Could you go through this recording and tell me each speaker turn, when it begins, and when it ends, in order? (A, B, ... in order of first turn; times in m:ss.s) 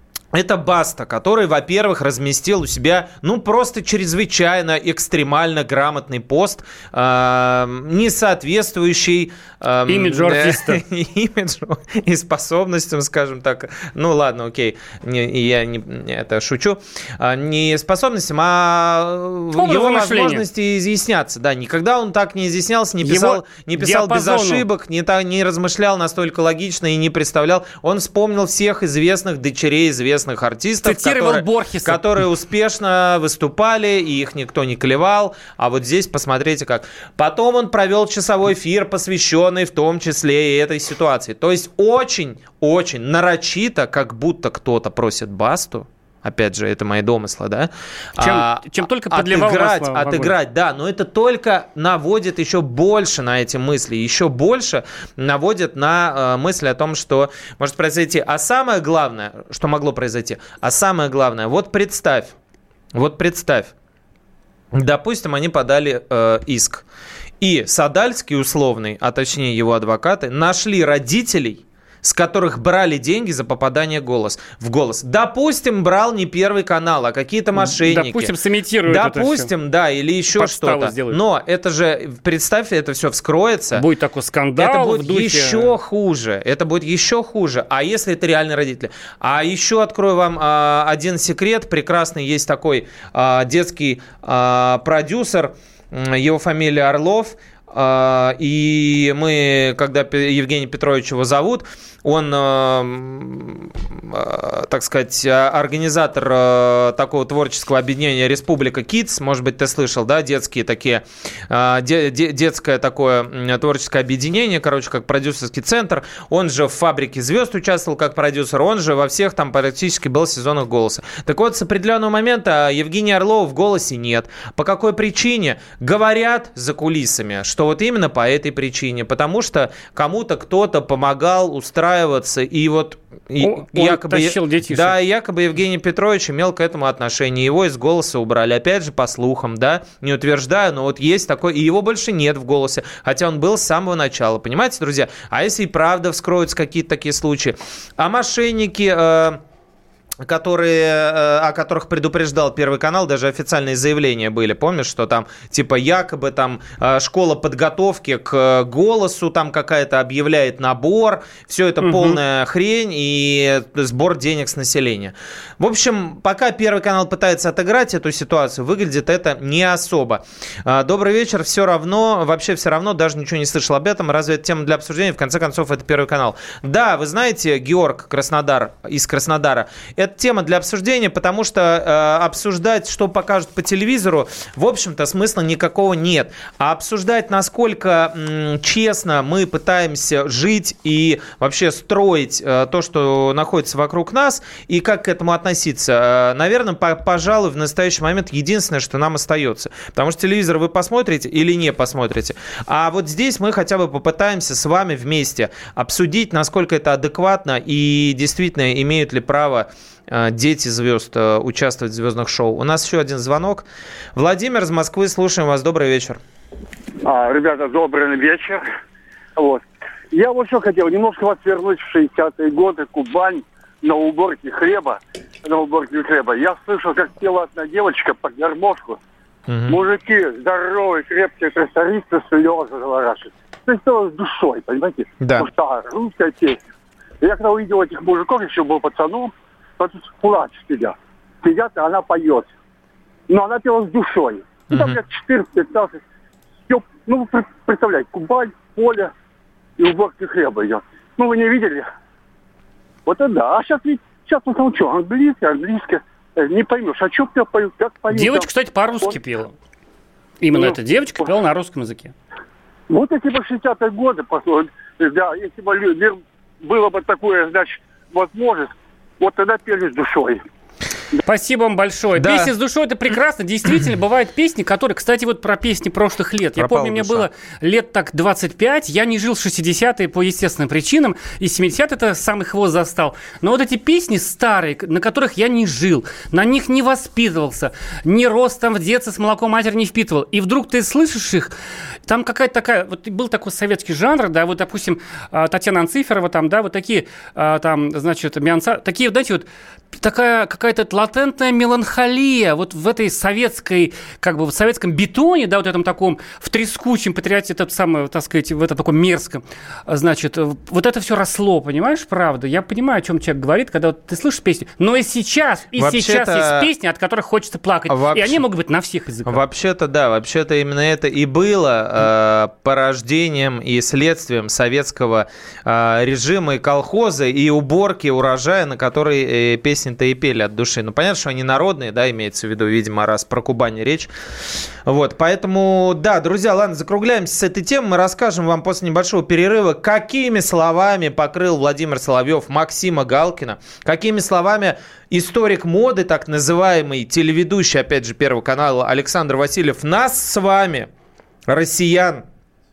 0:00.3-1:02.3 A
0:09.9-0:10.8 B
0:19.6-0:20.4 B
0:23.0-0:24.6 B
0:30.8-0:32.0 B
0:48.2-0:50.3 B
1:02.9-1:03.7 A
1:04.7-1:06.8 A
1:07.4-1:18.3 A
1:17.6-1:19.5 B
1:18.9-1:23.8 A
1:20.3-1:21.2 B
1:23.7-1:25.7 B
1:24.6-2:29.4 A
2:13.4-2:15.0 B
2:30.2-3:36.2 A
2:41.8-2:42.2 B
3:37.0-3:38.6 C
3:39.4-3:49.0 C
3:49.5-3:49.8 A
3:49.7-3:56.6 C
3:55.2-3:55.5 A
3:57.2-4:02.5 C
4:03.3-4:06.0 C
4:04.7-4:05.0 A
4:06.7-4:09.1 C
4:09.8-4:11.9 C
4:13.1-4:18.5 C
4:18.1-4:19.5 B
4:20.4-4:22.1 B
4:22.9-4:30.4 C
4:31.3-4:51.5 B
4:32.2-4:32.5 A
4:36.6-4:37.3 A
4:52.1-5:19.4 B
5:15.8-5:16.7 A
5:17.9-5:18.4 A
5:19.3-5:34.1 A
5:34.9-5:50.9 A
5:51.5-5:52.2 A